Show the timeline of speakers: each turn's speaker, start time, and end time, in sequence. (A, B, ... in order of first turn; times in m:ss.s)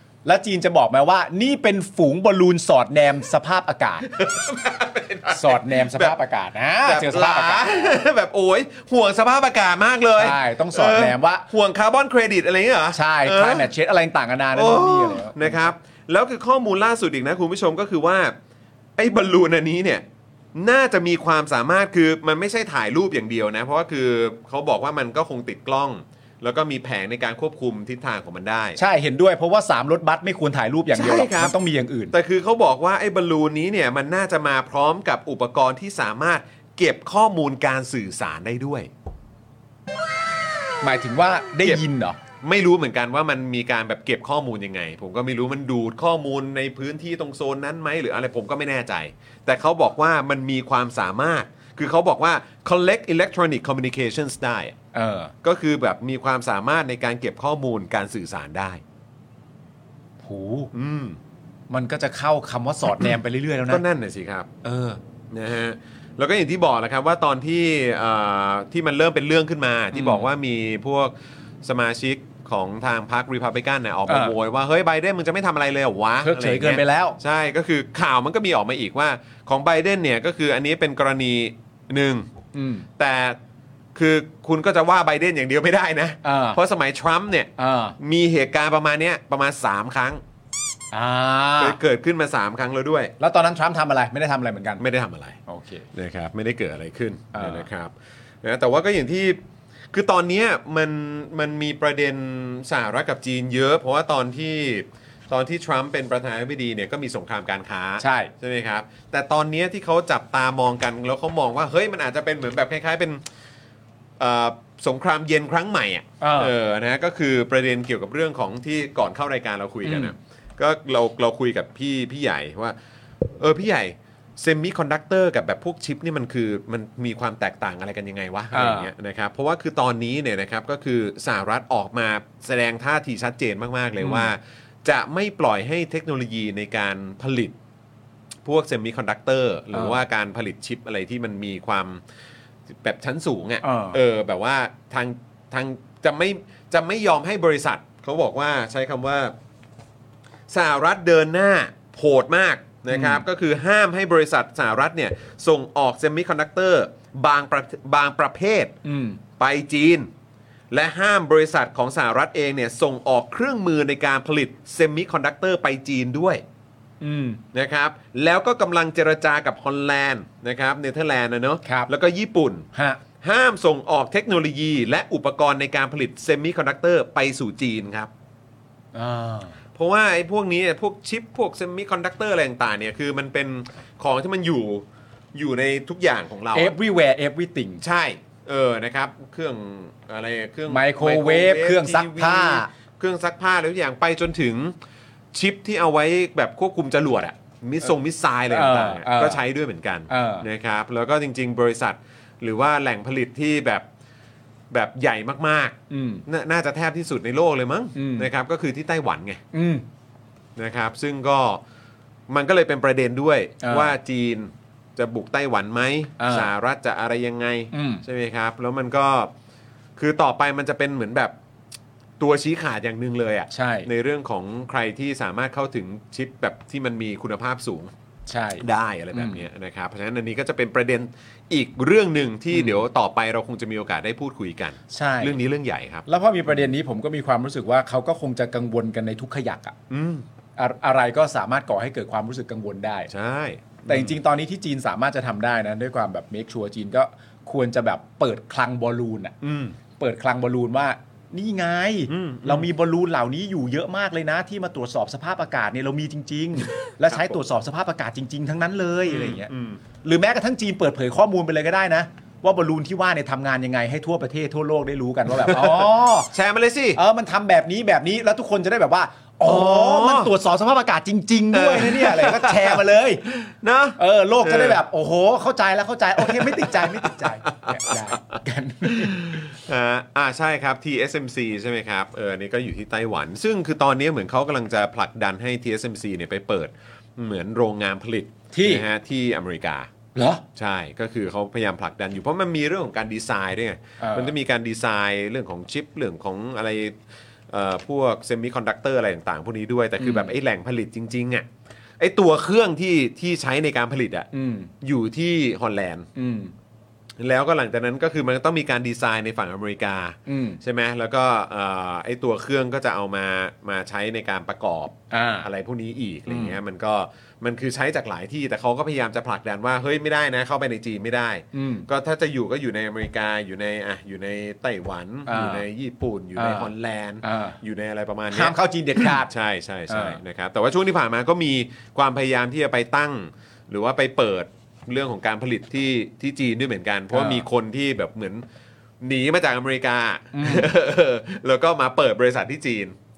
0:00.2-0:04.1 A
0:04.0-0:06.2 B
0:05.3-0:08.0 A
0:06.8-0:13.7 B
0:10.2-0:11.5 A
0:12.9-0:15.7 A
0:14.5-0:18.3 B
0:19.0-0:28.8 B
0:28.8-0:32.2 A
0:30.9-0:31.6 B
0:32.1-0:38.9 B
0:40.8-0:42.2 A
0:42.4-0:54.8 B
0:54.9-0:55.3 A
0:55.4-0:58.8 B
1:00.2-1:00.7 A
1:00.7-1:01.2 B
1:01.7-1:03.8 A
1:03.7-1:22.3 B
1:09.9-1:10.3 A
1:14.1-1:14.4 A
1:16.2-1:17.2 A
1:22.6-1:22.9 A
1:23.0-1:23.4 B
1:24.0-1:30.2 B
1:26.2-1:26.6 A
1:27.6-1:28.0 A
1:30.9-1:31.8 A
1:31.6-1:33.1 B
1:33.2-1:34.8 A
1:34.8-1:35.4 B
1:35.5-1:35.9 A
1:35.9-1:39.4 B
1:37.3-1:37.7 A
1:39.9-1:53.2 B
1:48.0-1:48.3 A
1:54.2-2:17.5 B
1:56.2-1:56.5 A
1:59.8-2:00.1 A
2:08.5-2:08.9 A
2:14.0-2:14.3 A
2:18.4-2:22.0 B
2:19.7-2:20.0 A
2:22.7-2:29.3 B
2:23.6-2:24.0 A
2:30.5-2:38.8 B
2:32.9-2:33.2 A
2:38.8-2:39.2 A
2:39.4-2:40.1 B
2:40.7-2:46.4 B
2:47.0-2:47.4 A
2:47.5-2:52.6 B
2:51.6-2:51.9 A
2:52.7-2:53.0 A
2:53.2-2:58.1 B
2:58.9-2:59.6 A
2:59.8-3:06.8 B
3:06.5-3:07.8 A
3:07.8-3:14.7 B
3:10.7-3:12.7 A
3:15.3-3:23.8 B
3:18.5-3:19.4 A
3:20.1-3:20.5 A
3:24.7-3:29.4 B
3:25.9-3:26.2 A
3:28.0-3:28.3 A
3:29.5-3:29.8 A
3:30.6-3:31.6 B
3:32.3-3:39.3 B
3:33.6-3:33.9 A
3:36.2-3:36.5 A
3:37.7-3:38.0 A
3:40.0-3:41.3 B
3:42.2-3:47.9 B
3:43.5-3:43.9 A
3:48.3-3:49.5 A
3:48.6-3:56.5 B
3:52.5-3:52.8 A
3:54.9-3:55.4 A
3:56.1-3:59.8 A
3:59.9-4:00.2 B
4:00.6-4:03.1 A
4:03.1-4:04.2 B
4:03.9-4:09.4 A
4:09.4-4:09.8 B
4:10.0-4:19.5 A
4:12.1-4:12.7 B
4:16.9-4:17.4 B
4:19.1-4:19.8 B
4:20.0-4:26.3 A
4:25.4-4:27.0 B
4:27.0-4:33.2 A
4:29.4-4:30.3 B
4:31.5-4:34.8 B
4:34.0-4:39.5 A
4:36.2-4:49.9 B
4:48.5-4:48.9 A
4:50.2-4:50.4 A
4:50.6-4:57.0 B
4:54.0-4:54.4 A
4:57.5-5:01.5 B
5:00.0-5:00.4 A
5:02.0-5:04.3 B
5:04.3-5:04.7 A
5:04.8-5:06.1 B
5:06.2-5:06.5 A
5:07.2-5:38.4 B
5:10.3-5:10.6 A
5:15.1-5:15.5 A
5:16.3-5:16.6 A
5:21.5-5:21.9 A
5:25.3-5:25.6 A
5:26.4-5:26.7 A
5:27.2-5:27.6 A
5:28.3-5:29.3 A
5:29.9-5:30.2 A
5:37.1-5:37.5 A
5:39.0-5:43.0 B
5:40.3-5:40.7 A